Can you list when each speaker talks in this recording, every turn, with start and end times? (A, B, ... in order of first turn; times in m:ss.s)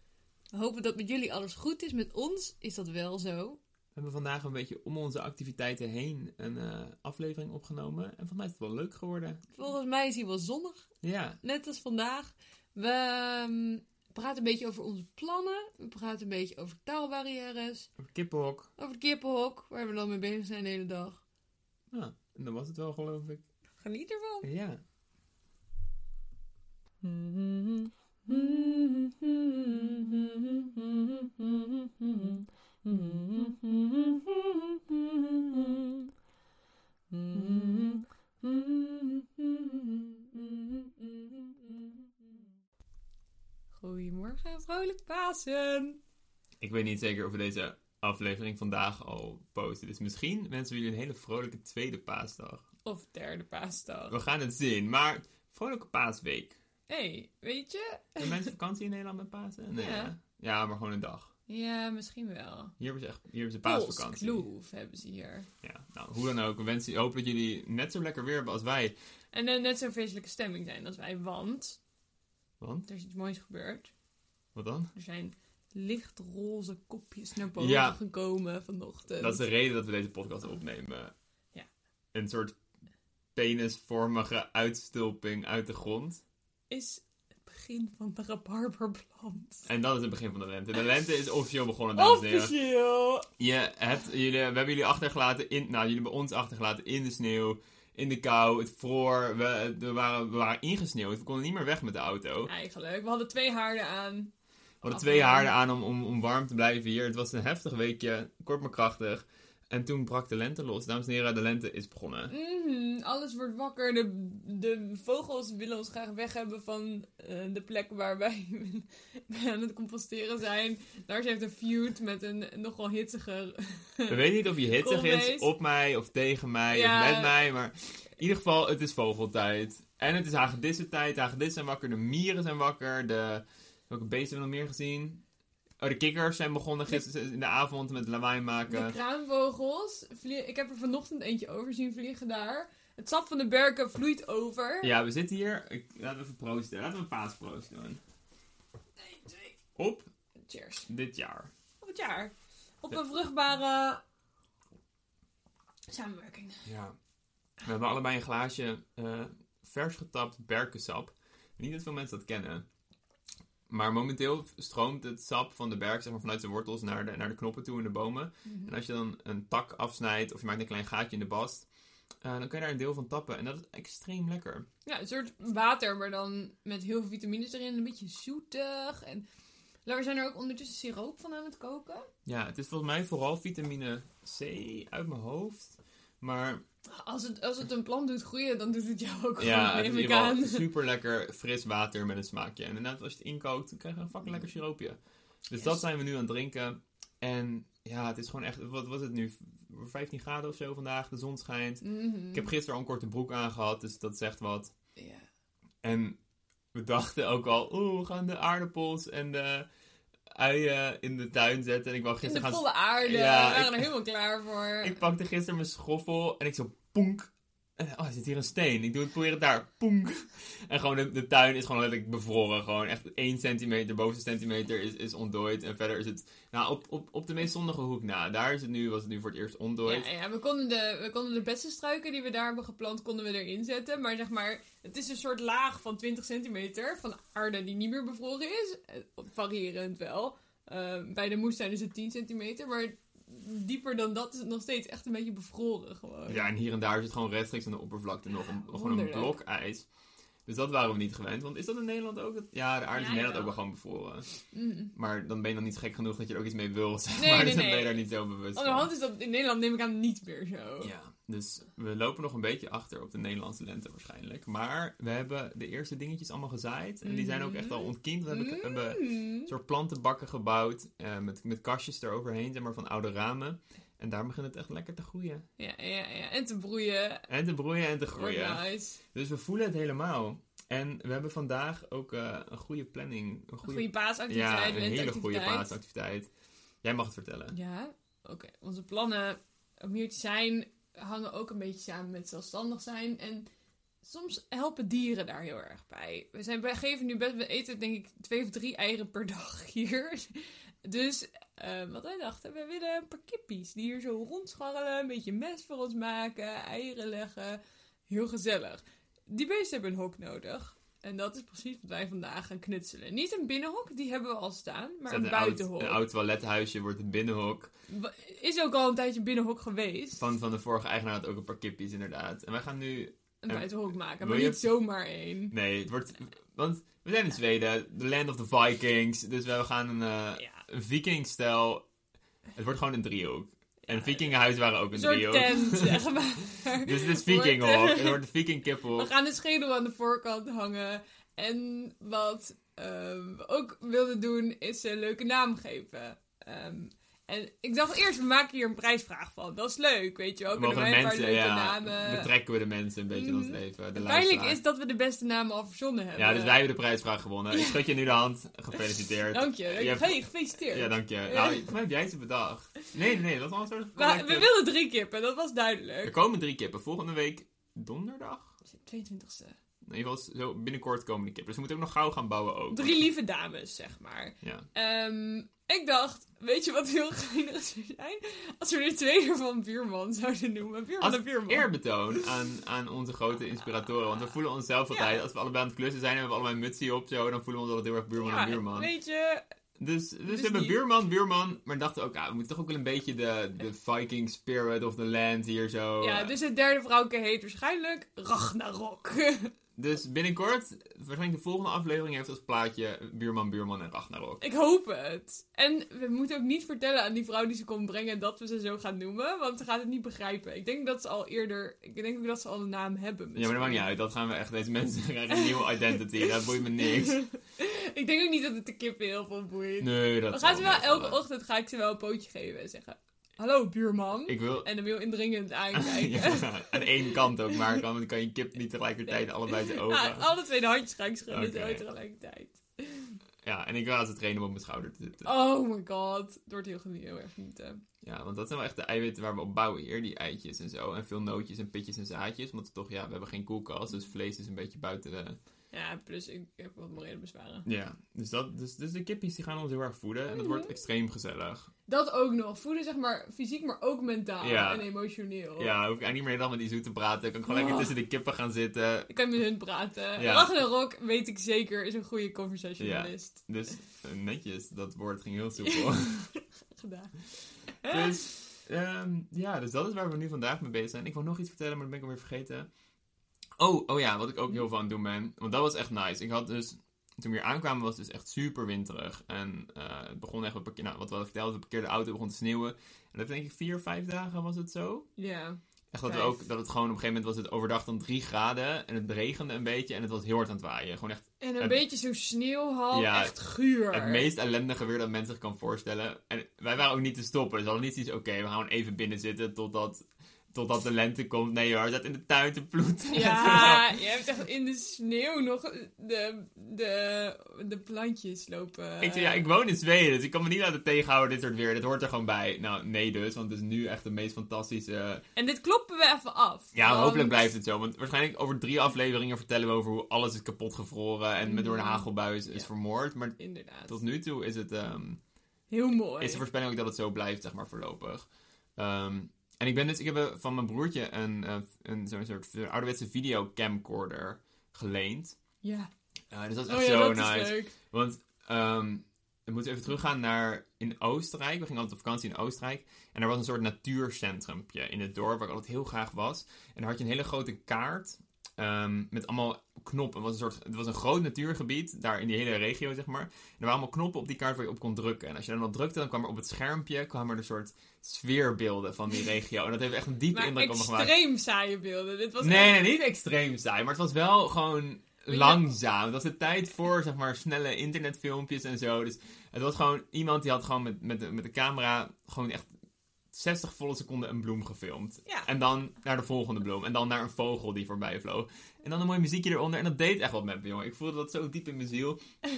0:00.5-0:03.6 A
0:03.9-0:09.4 B
0:09.5-0:10.8 A
0:11.0-0:11.4 B
0:11.4-0:17.9 A
0:18.0-0:18.7 B
0:18.8-0:21.2 A
0:21.9-0:23.4 B
0:23.8-0:24.5 A
0:24.4-0:24.8 B
0:27.0-0:36.1 A
0:37.1-0:42.4 A
0:43.8-0:46.0 A
0:46.6-0:52.6 B
0:52.8-0:54.1 A
0:54.1-0:56.6 B
0:56.9-0:58.4 A
0:58.2-1:01.3 B
0:59.7-1:00.1 A
1:01.5-1:02.7 A
1:02.8-1:04.4 B
1:03.6-1:05.5 A
1:05.6-1:08.9 B
1:09.3-1:11.8 A
1:12.6-1:12.9 B
1:12.9-1:13.9 A
1:14.5-1:14.9 B
1:14.9-1:19.4 A
1:17.6-1:18.0 B
1:19.2-1:21.1 B
1:22.1-1:22.6 B
1:23.3-1:26.2 B
1:26.7-1:29.7 A
1:29.6-1:32.5 B
1:31.9-1:33.3 A
1:33.4-1:42.5 B
1:42.4-1:44.3 A
1:44.8-1:45.5 A
1:44.8-1:52.3 B
1:52.3-2:05.5 A
2:04.1-2:15.2 B
2:06.7-2:07.4 A
2:15.8-2:19.0 B
2:18.7-2:24.9 A
2:24.8-2:28.0 B
2:29.0-2:29.6 A
2:29.8-2:30.1 B
2:30.5-2:30.9 A
2:30.9-2:31.5 B
2:31.8-2:34.0 A
2:35.9-2:36.6 A
2:36.6-2:37.0 B
2:37.6-2:42.6 B
2:43.7-2:51.7 B
2:48.4-2:48.7 A
2:52.2-2:54.6 B
2:54.8-2:59.2 A
2:59.8-3:02.1 A
3:02.2-3:06.6 B
3:06.9-3:10.6 A
3:09.4-3:24.7 B
3:21.8-3:22.5 A
3:25.0-3:25.2 A
3:25.8-3:26.2 B
3:26.7-3:29.7 B
3:30.3-3:33.9 B
3:32.2-3:35.0 A
3:34.8-3:50.1 B
3:49.8-4:06.5 A
4:06.3-4:09.8 B
4:08.6-4:09.4 A
4:10.4-4:14.2 B
4:12.9-4:13.6 A
4:14.5-4:14.9 A
4:14.9-4:18.9 B
4:17.2-4:20.9 A
4:20.8-4:35.4 B
4:27.0-4:29.5 A
4:35.6-4:37.3 A
4:37.3-4:38.6 B
4:38.1-4:39.0 A
4:39.1-4:46.3 B
4:43.6-4:45.7 A
4:46.8-4:47.5 B
4:47.5-4:53.5 A
4:54.0-5:16.0 A
5:15.1-5:17.7 B
5:17.9-5:20.2 A
5:20.2-5:24.7 B
5:23.4-5:25.5 A
5:25.5-5:31.8 B
5:32.5-5:36.1 B
5:33.9-5:34.3 A
5:34.9-5:38.2 A
5:36.6-5:39.1 B
5:38.9-5:52.3 A
5:50.5-5:54.6 B
5:53.1-5:56.6 A
5:56.2-6:04.5 B
5:57.5-5:57.9 A
5:59.3-6:01.6 A
6:04.0-6:06.1 A
6:06.0-6:08.5 B
6:08.7-6:09.6 A
6:09.8-6:12.9 B
6:12.7-6:22.2 A
6:14.4-6:14.7 B
6:21.0-6:28.9 B
6:24.9-6:25.2 A
6:28.2-6:29.4 A
6:29.8-6:36.3 B
6:30.3-6:30.8 A
6:36.0-6:39.5 A
6:39.8-6:44.4 B
6:44.4-6:53.9 A
6:53.4-6:57.2 B
6:55.4-7:07.7 A
6:59.8-7:01.2 B
7:04.3-7:04.7 B
7:05.7-7:10.3 B
7:09.1-7:13.2 A
7:11.3-7:11.8 B
7:13.4-7:15.3 B
7:15.2-7:17.8 A
7:18.0-7:25.4 B
7:25.7-7:27.6 A
7:27.6-7:31.7 B
7:30.4-7:30.7 A
7:31.9-7:35.7 A
7:34.4-7:34.8 B
7:35.6-7:39.1 B
7:37.5-7:37.9 A
7:39.1-7:43.5 A
7:40.2-7:40.5 B
7:42.8-7:46.2 B
7:45.6-7:47.1 A
7:47.7-7:48.3 A
7:47.9-7:52.7 B
7:53.6-8:05.0 B
8:05.2-8:06.4 A
8:05.9-8:11.8 B
8:11.4-8:14.2 A
8:12.9-8:13.3 B
8:13.9-8:20.0 B
8:20.5-8:24.0 B
8:23.1-8:29.4 A
8:29.0-8:35.2 B
8:35.4-8:37.5 A
8:36.7-8:43.3 B
8:41.4-8:42.7 A
8:43.4-8:44.0 A
8:43.9-8:45.2 B
8:45.7-8:46.4 A
8:46.2-8:55.4 B
8:55.6-8:55.9 A
8:56.3-9:21.1 B
8:56.6-8:57.7 A
9:20.3-9:22.8 A
9:22.4-9:32.7 B
9:25.3-9:25.7 A
9:33.3-9:42.2 B